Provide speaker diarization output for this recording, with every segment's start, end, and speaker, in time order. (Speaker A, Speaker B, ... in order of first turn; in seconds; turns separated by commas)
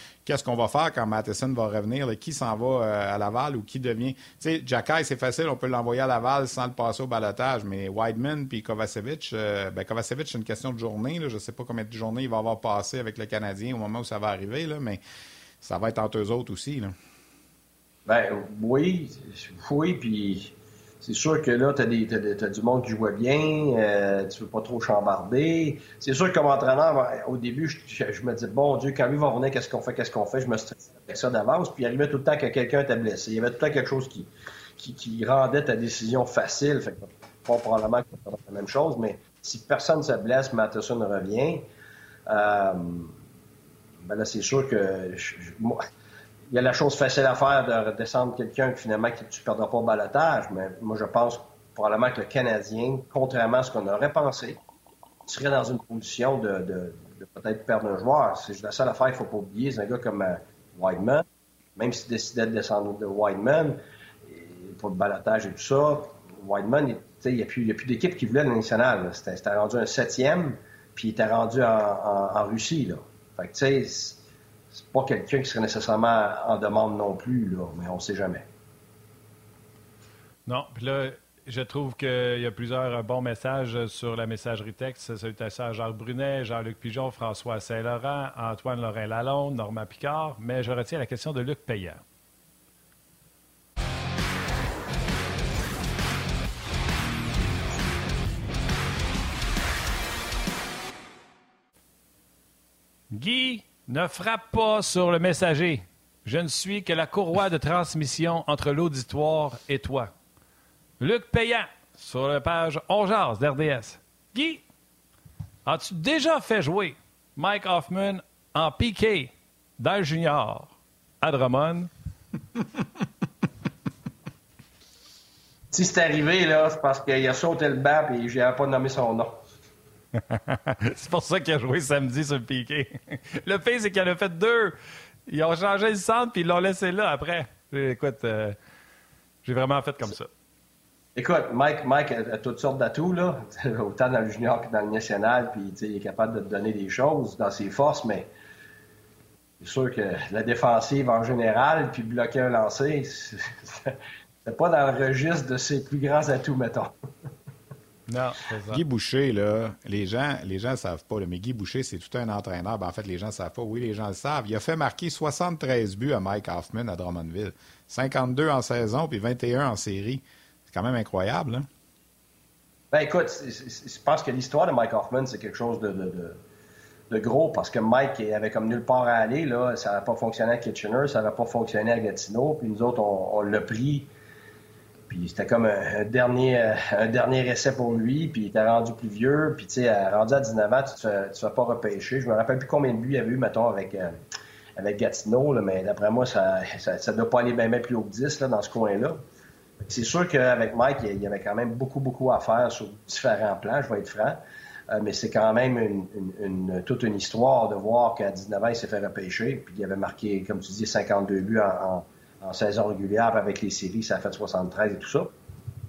Speaker A: 0.2-15.0, Speaker A: 15.6-16.9, Speaker B: 18.1-41.6, Speaker B: 42.3-43.1, Speaker B: 44.0-45.9, Speaker B: 46.5-54.6, Speaker B: 55.2-61.2, Speaker B: 61.8-74.2, Speaker B: 74.7-78.4, Speaker C: 80.5-92.0, Speaker C: 103.1-110.1, Speaker C: 111.0-114.6, Speaker C: 115.6-121.9, Speaker B: 125.7-129.3, Speaker C: 130.3-134.7, Speaker C: 135.3-138.6, Speaker C: 139.4-140.3, Speaker B: 141.1-148.3, Speaker B: 149.6-156.9, Speaker C: 158.1-158.8, Speaker A: 158.7-171.7, Speaker B: 172.9-176.4, Speaker B: 177.1-184.1, Speaker B: 185.1-194.1, Speaker B: 194.8-199.2, Speaker B: 199.8-215.3